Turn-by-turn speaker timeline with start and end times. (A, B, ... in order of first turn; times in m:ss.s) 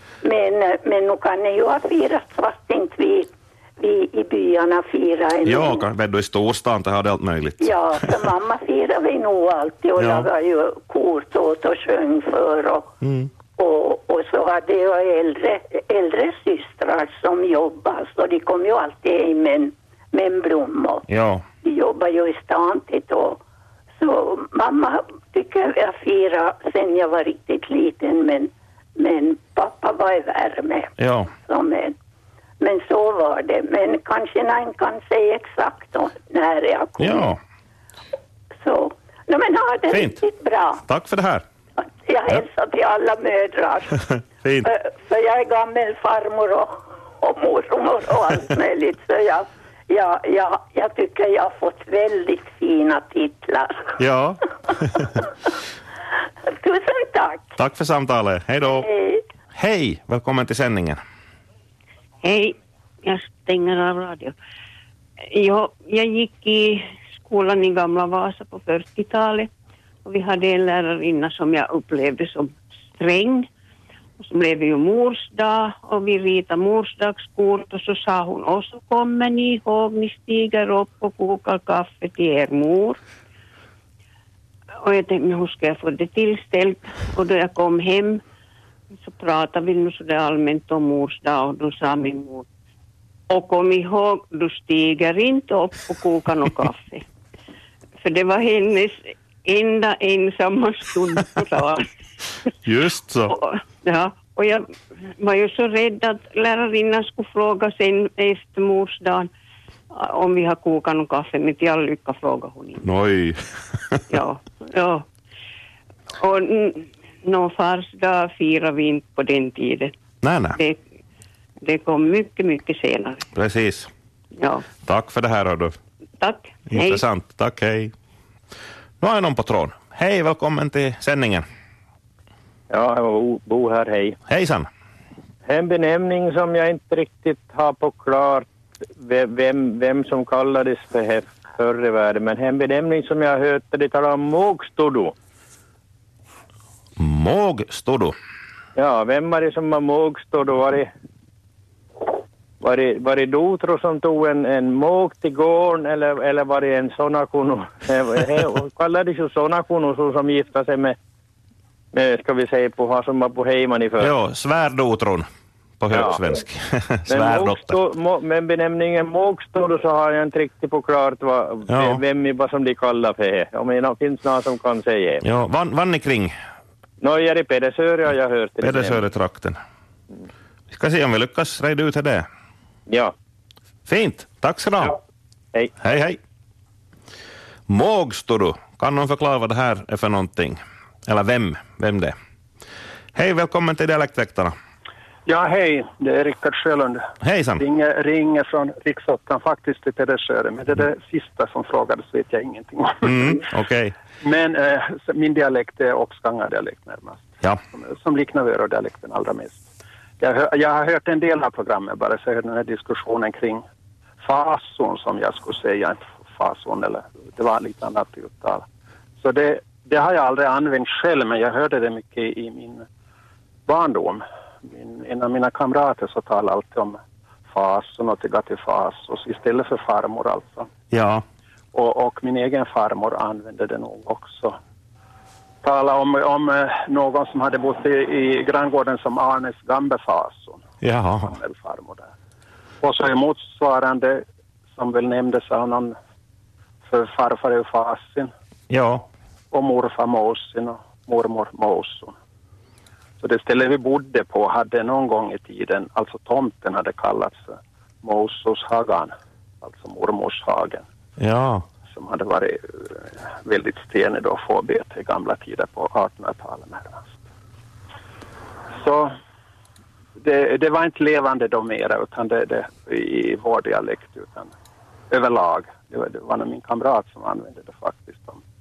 0:00.2-0:05.8 A
0:05.4-0:08.2 B
0:07.6-0:12.9 A
0:10.0-0:10.3 B
0:13.0-0:13.3 B
0:13.6-0:21.0 A
0:21.1-0:21.4 B
0:21.6-0:23.4 A
0:24.0-0:31.9 A
0:31.0-0:31.3 B
0:32.6-0:37.3 A
0:37.0-0:37.4 B
0:38.6-0:40.8 A
0:39.9-0:40.2 B
0:40.9-0:41.4 B
0:41.8-0:44.0 A
0:44.4-0:44.7 B
0:44.6-0:53.9 A
0:54.0-0:55.1 B
0:55.0-0:55.3 A
0:56.5-0:57.5 A
0:57.6-0:58.9 B
0:58.7-0:59.2 A
0:59.5-1:01.0 B
1:02.2-1:04.3 C
1:05.3-1:09.5 C
1:10.0-1:13.5 C
1:14.2-1:23.0 C
1:24.8-1:28.2 C
1:29.0-1:32.4 C
1:33.3-1:37.0 C
1:38.0-1:41.9 C
1:42.6-1:43.3 B
1:43.3-1:49.3 C
1:49.9-1:52.8 C
1:52.8-1:54.0 B
1:54.1-1:55.0 C
1:56.2-1:59.9 C
2:00.2-2:00.6 B
2:00.5-2:00.8 C
2:01.6-2:03.3 C
2:03.3-2:03.9 B
2:04.4-2:04.6 C
2:04.8-2:05.8 B
2:06.2-2:07.0 C
2:06.7-2:07.9 B
2:09.0-2:11.4 B
2:12.7-2:14.2 D
2:14.3-2:14.7 B
2:15.4-2:25.1 D
2:27.0-2:28.1 B
2:28.7-2:30.9 D
2:32.6-2:41.0 D
2:41.9-2:44.1 D
2:44.0-2:45.3 B
2:45.8-2:47.8 B
2:45.9-2:46.2 D
2:47.1-2:55.2 D
2:51.7-2:52.0 B
2:55.2-2:56.3 B
2:57.0-2:59.0 D
2:58.6-2:59.6 B
3:00.7-3:02.3 B
3:02.9-3:03.1 D
3:03.9-3:05.0 B
3:05.8-3:06.2 B
3:07.7-3:12.1 B
3:13.1-3:14.5 B
3:15.3-3:23.3 E
3:17.2-3:17.6 B
3:23.0-3:23.9 B
3:24.2-3:29.6 E
3:30.2-3:33.6 E
3:34.2-3:38.6 E
3:39.2-3:42.8 E
3:43.7-3:47.0 E
3:47.5-3:50.7 E
3:50.9-3:51.2 B
3:51.7-3:54.6 E
3:55.6-4:00.6 E
4:00.8-4:01.3 B
4:01.2-4:02.1 E
4:02.8-4:06.0 E
4:06.8-4:08.3 E
4:08.7-4:09.1 B
4:09.5-4:12.1 E
4:13.2-4:20.8 E
4:21.2-4:21.6 B
4:21.9-4:27.1 E
4:28.7-4:29.1 E
4:30.2-4:34.5 E
4:35.1-4:38.4 E